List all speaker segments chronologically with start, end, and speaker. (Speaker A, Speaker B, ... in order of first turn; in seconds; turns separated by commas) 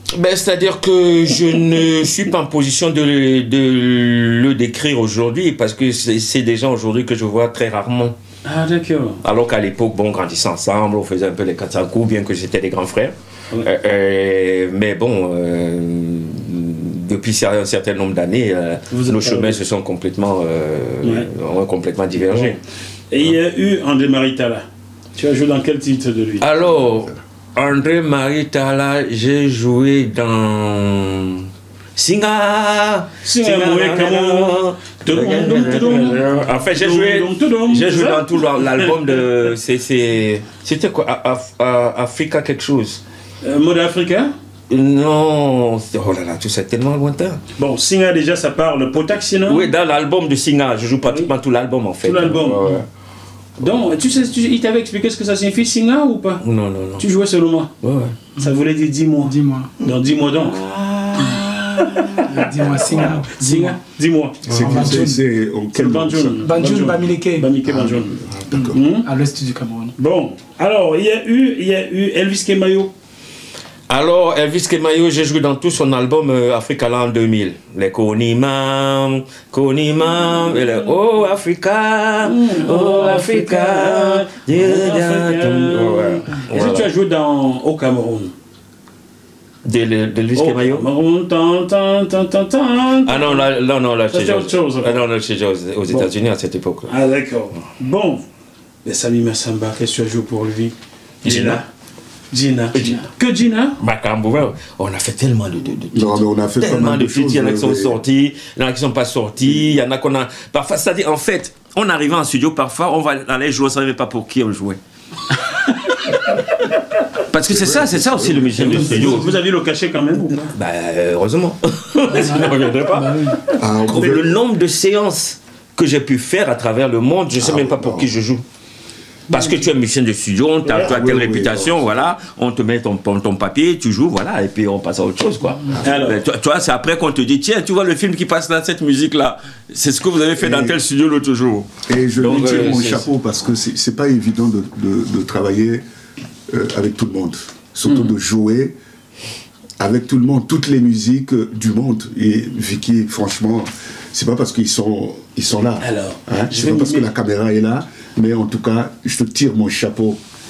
Speaker A: 0.1-8.1, Speaker B: 8.4-9.2, Speaker A: 9.2-22.6, Speaker B: 18.9-19.6, Speaker B: 21.0-21.3, Speaker B: 22.2-22.6, Speaker B: 23.1-26.5, Speaker A: 26.4-43.0, Speaker B: 33.2-39.2, Speaker B: 43.4-44.3, Speaker A: 44.7-47.4, Speaker B: 47.6-49.7, Speaker A: 49.5-52.9, Speaker B: 52.0-52.8, Speaker B: 53.6-56.4, Speaker A: 56.4-57.1, Speaker B: 57.0-57.7, Speaker A: 57.8-58.1, Speaker B: 58.4-60.6, Speaker C: 59.2-59.8, Speaker A: 60.4-63.1, Speaker B: 61.8-65.1, Speaker C: 62.3-63.8, Speaker D: 64.5-66.6, Speaker C: 64.5-65.2, Speaker B: 65.8-68.2, Speaker C: 66.4-67.5, Speaker D: 67.7-68.8, Speaker C: 68.5-69.9, Speaker B: 68.7-69.1, Speaker B: 70.0-72.9, Speaker A: 73.9-86.9, Speaker B: 82.2-88.3, Speaker A: 89.6-90.9, Speaker B: 90.3-93.5, Speaker A: 93.1-96.9, Speaker B: 94.1-95.0, Speaker B: 96.9-98.2, Speaker B: 98.8-101.7, Speaker A: 101.2-101.6, Speaker B: 102.3-103.8, Speaker A: 102.7-103.0, Speaker A: 103.8-114.8, Speaker D: 105.9-108.0, Speaker A: 117.3-119.4, Speaker D: 117.4-119.2, Speaker B: 118.6-120.5, Speaker C: 118.8-119.3, Speaker A: 120.5-128.4, Speaker C: 122.1-123.4, Speaker D: 123.5-124.4, Speaker D: 127.4-128.1, Speaker A: 129.3-143.1, Speaker B: 130.6-131.0, Speaker D: 130.8-131.8, Speaker B: 135.8-136.2, Speaker D: 140.4-140.8, Speaker D: 141.9-145.8, Speaker D: 146.5-148.8, Speaker B: 147.9-148.2, Speaker D: 149.8-160.2, Speaker B: 155.8-157.1